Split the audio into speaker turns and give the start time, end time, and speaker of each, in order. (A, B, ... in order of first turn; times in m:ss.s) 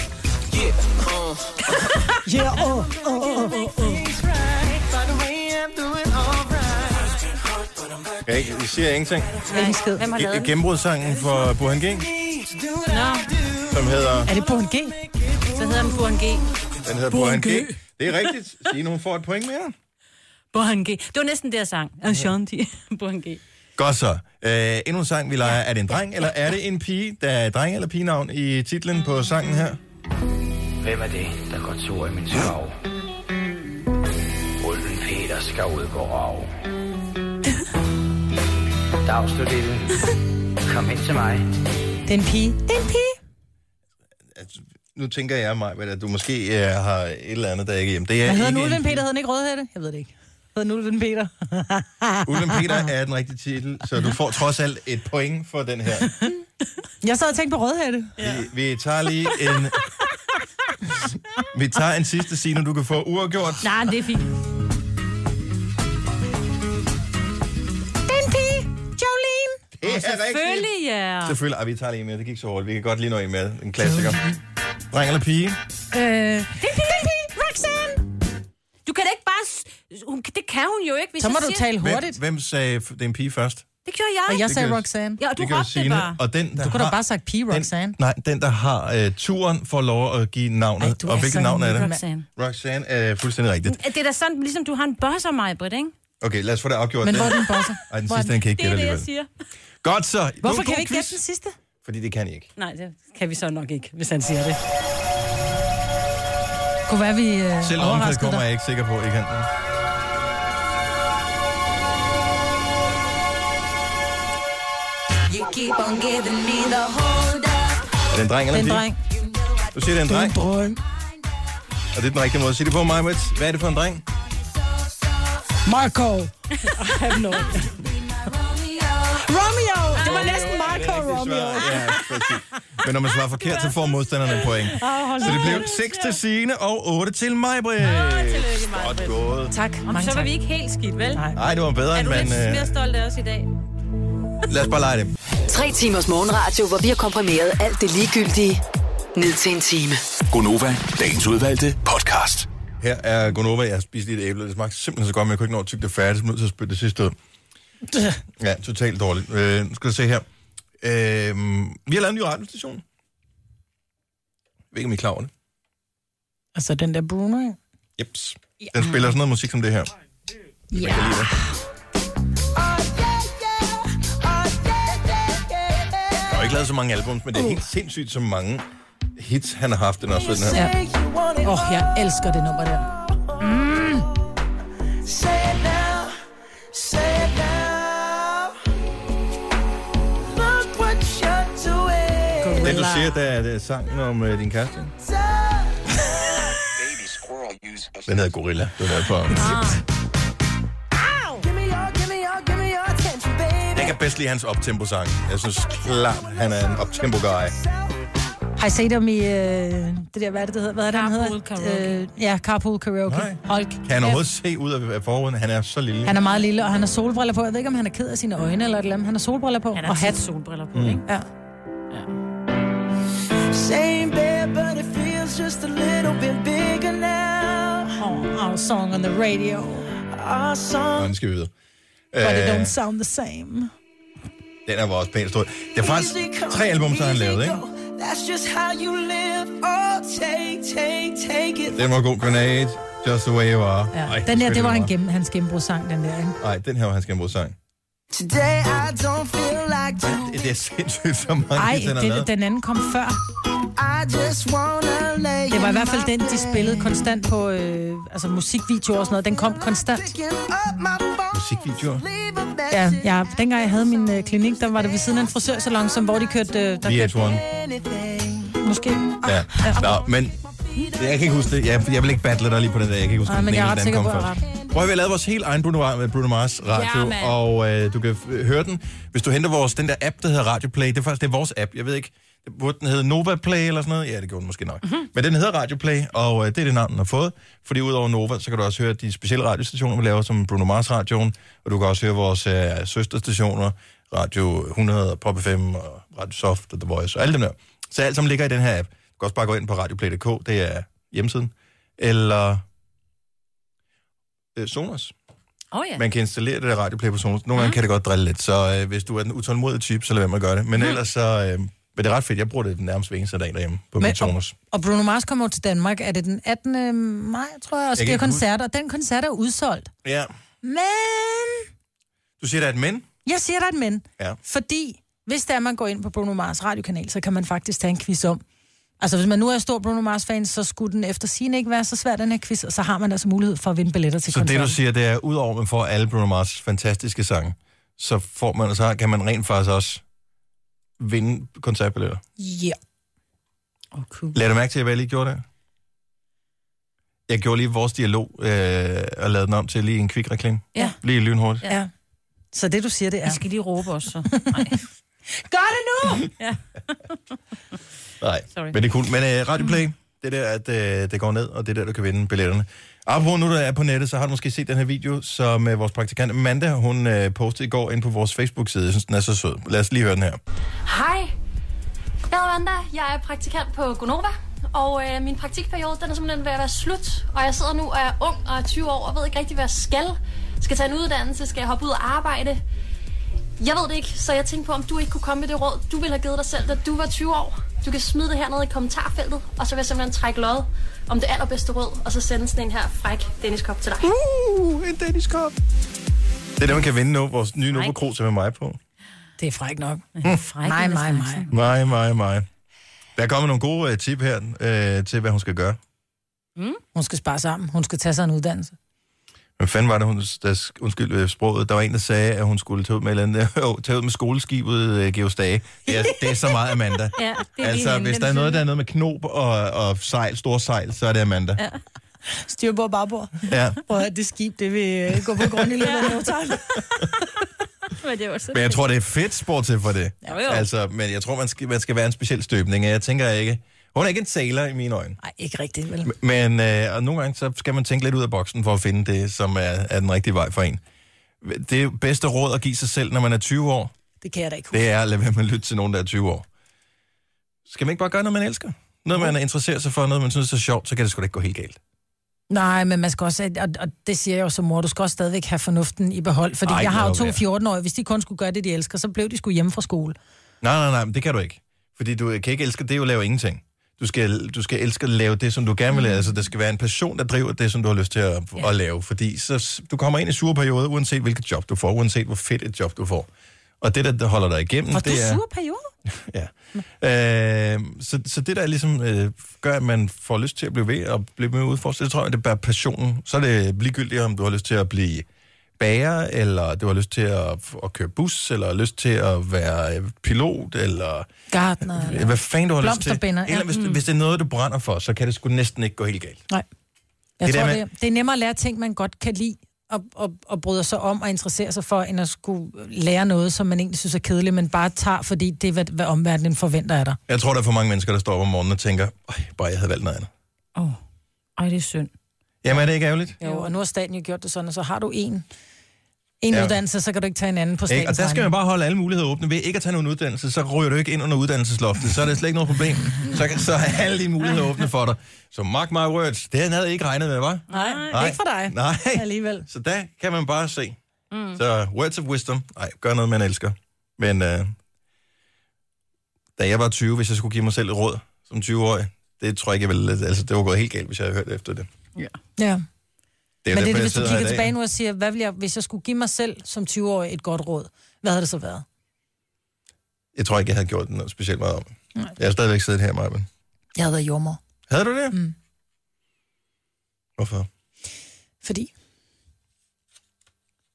0:02.2-0:03.6 A
0:02.6-0:08.1 B
0:03.3-0:04.0 C
0:08.2-0:09.4 D
0:09.5-0:10.6 C
0:09.5-0:10.0 A
0:10.1-0:12.1 D
0:12.0-0:16.2 B
0:12.9-0:13.3 C
0:13.7-0:14.3 D
0:14.2-0:15.0 A
0:15.5-0:16.5 C
0:16.8-0:19.7 D
0:17.1-0:17.7 A
0:20.5-0:23.4 C
0:23.8-0:29.8 D
0:30.8-0:32.8 E
0:34.6-0:36.6 E
0:39.0-0:39.9 E
0:40.6-0:41.4 E
0:42.1-0:43.2 A
0:44.3-0:49.0 D
0:48.2-0:52.9 A
0:52.2-0:56.2 D
0:57.0-0:58.2 A
0:58.2-0:59.8 D
1:01.5-1:03.7 D
1:03.6-1:04.3 C
1:08.0-1:09.6 A
1:09.8-1:10.7 D
1:09.9-1:11.4 C
1:11.2-1:14.2 D
1:14.9-1:15.6 D
1:15.9-1:18.0 A
1:16.6-1:17.1 C
1:18.8-1:21.7 C
1:21.2-1:22.2 A
1:21.8-1:23.6 D
1:23.8-1:24.5 C
1:24.3-1:25.2 A
1:24.4-1:33.8 D
1:25.2-1:26.2 C
1:26.6-1:28.0 A
1:30.8-1:32.0 A
1:31.7-1:32.2 C
1:33.6-1:35.9 C
1:36.2-1:39.1 D
1:37.0-1:38.2 A
1:38.2-1:39.3 C
1:39.8-1:41.2 D
1:40.4-1:41.5 A
1:41.8-1:42.5 D
1:42.6-1:44.6 C
1:46.9-1:48.4 A
1:47.6-1:49.5 D
1:55.5-1:55.8 A
1:58.1-1:58.8 D
1:58.5-1:59.0 A
1:59.7-2:00.4 D
2:00.0-2:00.8 A
2:01.9-2:04.0 D
2:05.6-2:07.9 A
2:09.2-2:12.2 A
2:09.4-2:09.9 B
2:10.0-2:19.5 D
2:10.0-2:10.3 C
2:10.7-2:11.1 B
2:14.7-2:15.7 A
2:15.1-2:16.2 C
2:17.8-2:19.2 C
2:19.5-2:20.3 A
2:19.9-2:21.3 C
2:21.1-2:21.4 A
2:21.4-2:22.7 D
2:21.9-2:23.5 C
2:24.5-2:25.1 D
2:25.5-2:28.6 F
2:29.1-2:30.0 F
2:30.3-2:32.5 G
2:32.8-2:37.1 D
2:37.9-2:38.2 A
2:38.4-2:40.2 D
2:40.8-2:42.8 D
2:44.7-2:45.3 D
2:46.5-2:47.6 A
2:48.0-2:49.9 D
2:50.7-2:51.6 A
2:50.7-2:51.3 D
2:52.6-2:56.5 B
2:56.2-2:58.6 D
2:57.3-2:57.6 A
2:59.2-3:00.6 D
3:00.2-3:02.1 B
3:01.4-3:02.9 A
3:02.9-3:04.1 B
3:03.4-3:04.1 A
3:05.0-3:06.1 B
3:06.7-3:08.5 B
3:10.3-3:12.7 B
3:12.4-3:13.2 A
3:12.5-3:14.9 D
3:15.0-3:16.3 B
3:17.4-3:17.9 B
3:18.0-3:19.4 D
3:19.3-3:19.7 A
3:19.3-3:19.8 C
3:21.0-3:21.4 A
3:21.4-3:24.0 B
3:23.7-3:27.5 D
3:25.5-3:28.0 B
3:28.6-3:34.2 A
3:30.9-3:32.0 C
3:33.1-3:36.2 D
3:36.0-3:40.2 A
3:39.7-3:41.0 C
3:40.7-3:41.0 D
3:43.5-3:48.0 B
3:48.0-3:49.9 A
3:49.9-3:51.1 B
3:51.0-3:51.5 D
3:52.1-3:52.7 D
3:52.2-3:53.7 A
3:54.6-3:57.6 D
3:55.8-4:01.8 B
4:01.7-4:04.9 D
4:03.9-4:06.4 A
4:06.4-4:07.6 D
4:08.1-4:10.6 B
4:10.0-4:12.3 D
4:11.5-4:13.2 A
4:13.8-4:17.0 B
4:15.5-4:20.1 A
4:19.9-4:24.0 B
4:21.3-4:22.0 D
4:22.7-4:27.2 A
4:26.8-4:27.4 D
4:27.1-4:28.6 B
4:28.6-4:29.9 A
4:29.2-4:30.4 D
4:29.2-4:30.2 B
4:30.7-4:31.2 B
4:30.9-5:02.6 D
4:33.2-4:34.4 A
4:36.7-4:37.4 C
5:04.6-5:05.1 D
5:05.7-5:06.0 C
5:06.0-5:14.5 D
5:14.0-5:19.9 A
5:18.0-5:18.4 D
5:20.0-5:20.3 D
5:20.6-5:21.7 A
5:22.4-5:23.1 D
5:23.2-5:28.4 A
5:29.0-5:34.8 A
5:34.3-5:40.0 D
5:41.0-5:42.2 D
5:42.4-5:42.8 A
5:43.9-5:44.3 A
5:44.3-5:45.4 D
5:47.3-5:51.6 D
5:52.5-5:53.4 A
5:53.2-5:54.8 C
5:54.3-5:54.6 A
5:55.4-5:56.3 A
5:58.2-6:10.4 D
6:10.8-6:11.3 H
6:12.3-6:22.6 H
6:23.6-6:34.1 H
6:34.0-6:35.6 D
6:36.6-6:38.8 D
6:39.4-6:41.5 A
6:40.2-6:41.5 C
6:41.5-6:42.4 D
6:43.2-6:45.8 D
6:46.9-6:48.7 A
6:49.6-7:01.6 D
6:57.2-6:58.6 C
7:02.2-7:06.8 A
7:03.5-7:03.8 D
7:05.8-7:06.3 C
7:07.9-7:08.8 C
7:08.5-7:15.2 D
7:10.3-7:10.7 C
7:15.2-7:16.1 A
7:16.0-7:20.8 D
7:21.4-7:23.9 D
7:24.2-7:24.8 A
7:24.7-7:26.4 D
7:27.7-7:31.8 D
7:32.5-7:40.2 A
7:36.6-7:37.4 D
7:40.6-7:53.3 D
7:53.8-7:55.4 D
7:54.9-7:55.9 A
7:56.1-8:05.2 D
8:05.8-8:11.3 D
8:11.5-8:13.8 A
8:11.8-8:16.4 D
8:17.4-8:27.2 A
8:17.4-8:17.8 D
8:27.3-8:30.3 D
8:31.6-8:32.1 C
8:32.6-8:33.4 D
8:33.4-8:33.7 C
8:33.4-8:35.4 A
8:36.4-8:38.5 A
8:36.5-8:36.8 D
8:37.9-8:51.0 D
8:47.7-8:48.1 C
8:47.7-8:49.7 A
8:51.3-8:51.6 C
8:51.5-8:54.7 D
8:56.6-9:01.9 D
9:02.6-9:02.8 A
9:03.6-9:04.7 D
9:03.7-9:08.8 A
9:10.3-9:13.5 D
9:14.0-9:14.6 A
9:14.9-9:15.4 D
9:17.4-9:17.7 D
9:18.6-9:18.9 A